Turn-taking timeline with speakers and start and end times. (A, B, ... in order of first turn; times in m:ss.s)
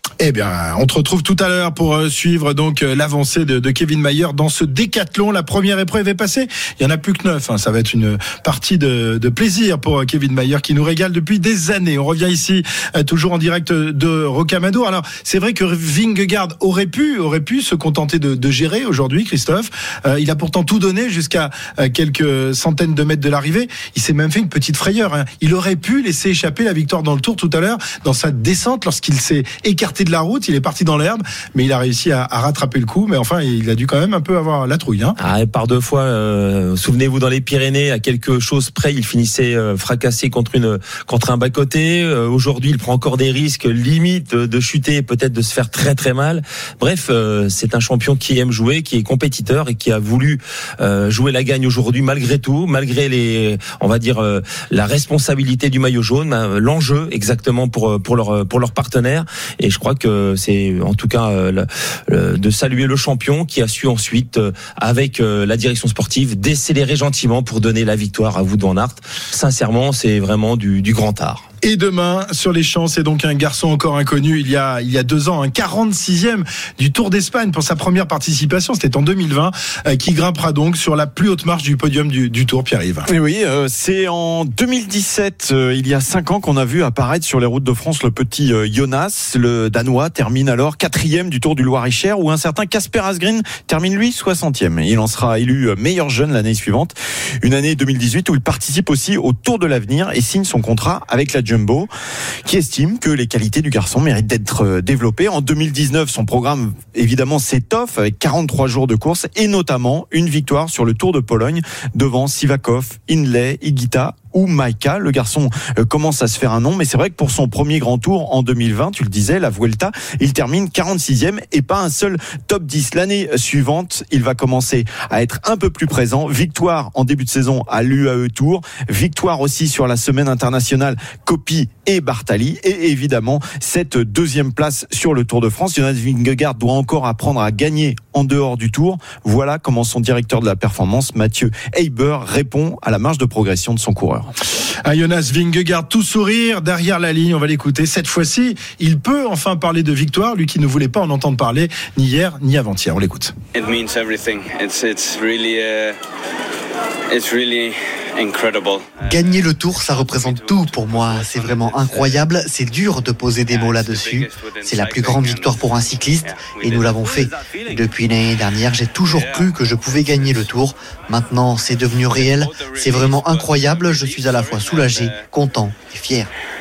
0:00.2-0:35.2 A
0:35.2-1:11.4 B
1:11.6-1:23.1 A
1:23.0-1:41.9 C
1:42.4-2:24.3 C
2:24.8-2:33.3 A
2:33.5-2:36.0 D
2:37.1-2:42.3 D
2:39.1-2:56.3 E
2:43.5-2:47.7 D
2:49.0-2:50.5 D
2:52.1-2:55.3 D